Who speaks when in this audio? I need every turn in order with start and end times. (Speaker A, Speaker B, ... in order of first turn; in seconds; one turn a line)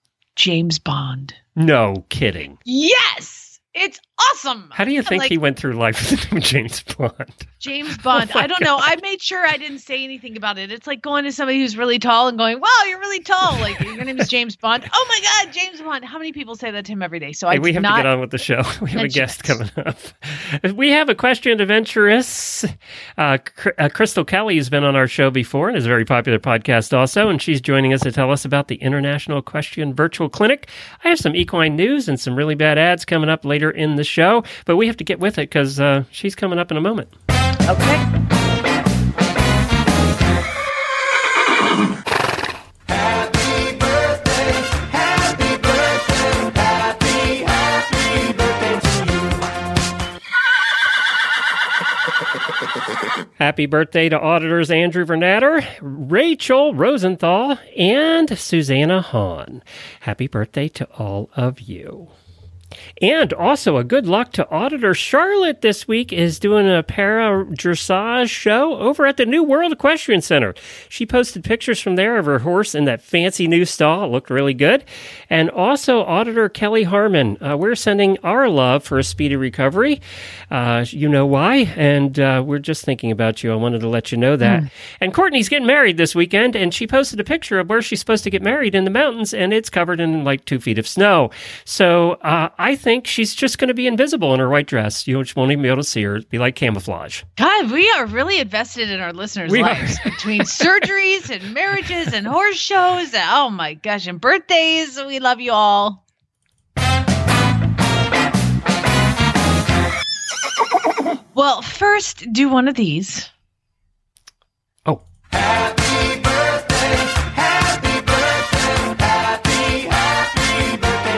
Speaker A: 0.4-1.4
Speaker B: 1.6-2.6
Speaker A: 2.7-5.3
Speaker B: 4.8-7.5
Speaker A: 7.6-18.1
Speaker B: 8.1-8.7
Speaker B: 17.5-37.1
Speaker A: 18.9-19.6
Speaker A: 37.7-38.0
Speaker B: 53.4-62.1
Speaker B: 63.0-97.2
Speaker A: 97.4-106.0
Speaker B: 99.5-100.7
Speaker A: 111.3-113.3